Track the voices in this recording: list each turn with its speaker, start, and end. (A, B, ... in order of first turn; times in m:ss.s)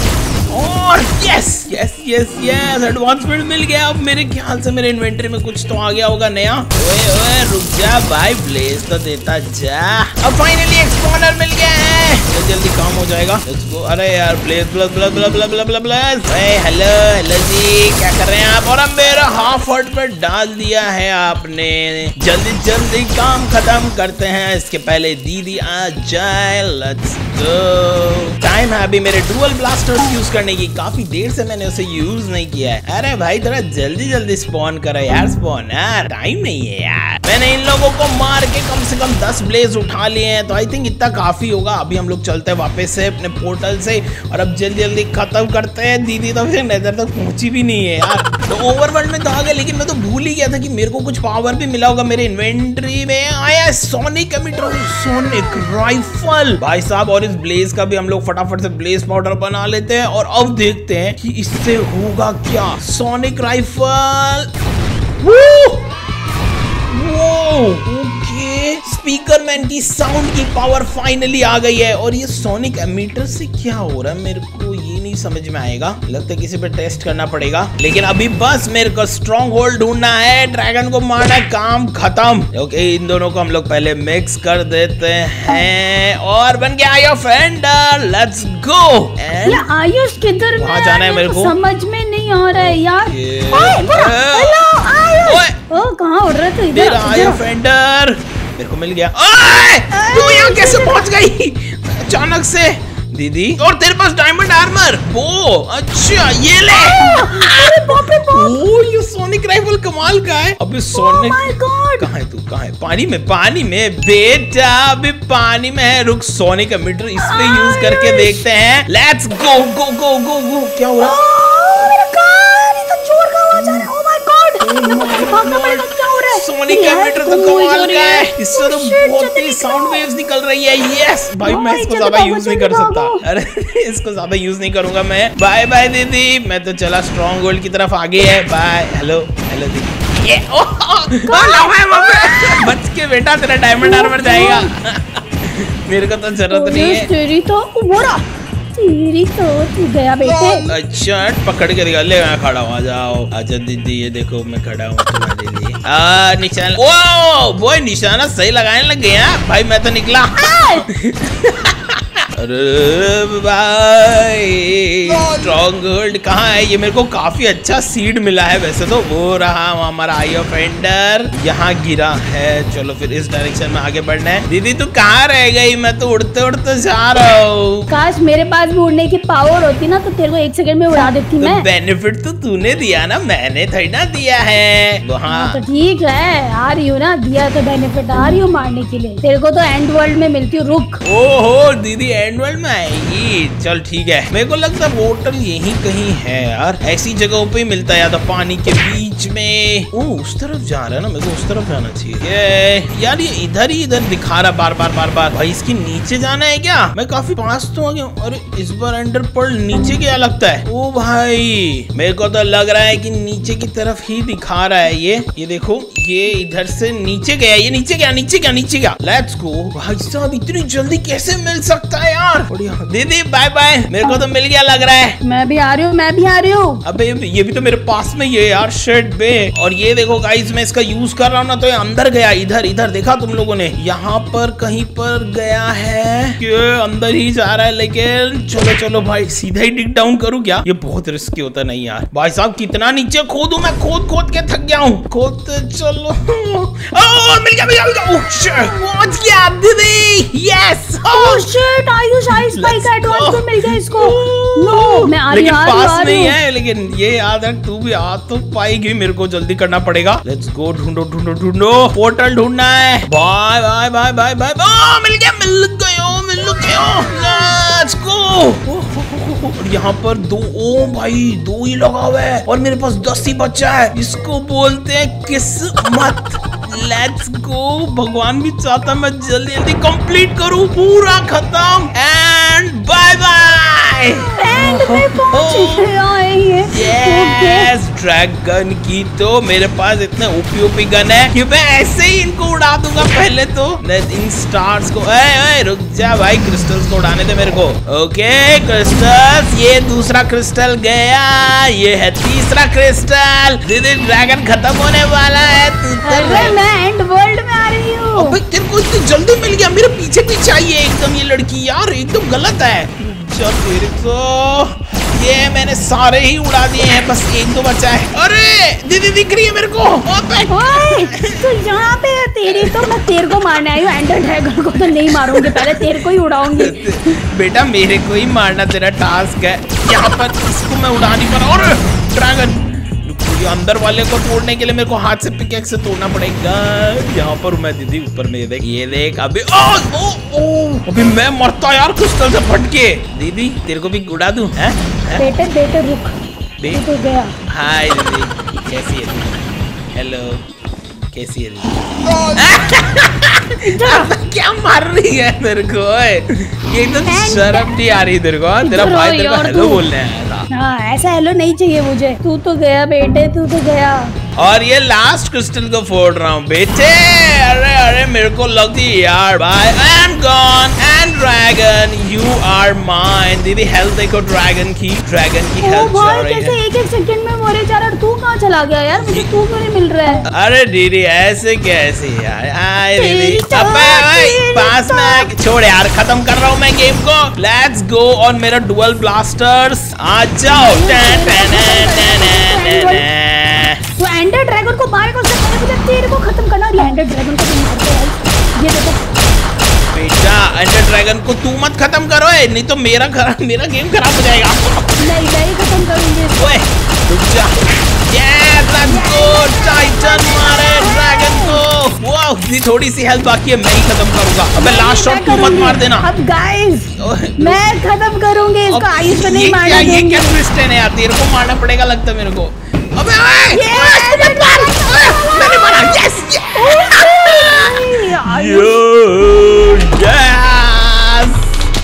0:00.5-1:04.5 A
1:05.2-1:05.9 A
1:06.9-1:29.6 A
1:29.4-1:37.4 B
1:30.6-1:31.5 A
1:32.6-1:34.7 A
1:35.2-1:35.6 A
1:36.7-2:01.2 A
1:39.9-1:41.1 B
1:46.7-1:48.6 B
1:50.9-1:52.1 B
1:57.2-1:58.4 B
2:01.0-2:10.0 B
2:03.6-2:03.9 A
2:04.6-2:27.1 A
2:11.4-2:13.2 B
2:21.3-2:22.7 B
2:23.8-2:24.7 B
2:26.5-2:30.7 B
2:30.6-2:57.9 A
2:40.4-2:40.8 B
2:57.9-3:01.7 B
3:01.4-3:05.6 A
3:05.3-3:11.0 B
3:11.0-3:45.2 A
3:45.2-3:46.8 B
3:46.8-4:11.5 A
4:11.1-4:16.4 B
4:12.4-4:45.9 A
4:44.4-4:47.7 B
4:46.7-5:06.6 A
5:06.0-5:08.4 B
5:08.2-5:21.5 A
5:20.5-5:26.8 B
5:22.5-5:23.6 A
5:25.1-5:25.9 A
5:26.4-5:45.3 A
5:45.2-5:46.2 B
5:46.7-5:47.3 B
5:47.5-5:50.4 A
5:51.1-5:51.8 A
5:52.3-6:00.5 A
5:53.6-5:54.1 B
5:57.1-5:57.7 B
5:58.6-5:59.8 B
6:00.5-6:04.1 B
6:04.4-6:16.6 A
6:15.6-6:20.2 B
6:19.0-6:19.3 A
6:20.3-6:33.8 A
6:23.0-6:25.3 B
6:30.5-6:33.0 B
6:34.0-6:39.0 B
6:39.9-6:45.1 A
6:45.0-6:46.6 B
6:46.4-6:56.1 A
6:48.8-6:51.6 B
6:54.6-7:00.4 B
6:57.0-6:57.7 A
6:58.7-7:11.5 A
7:03.5-7:08.8 B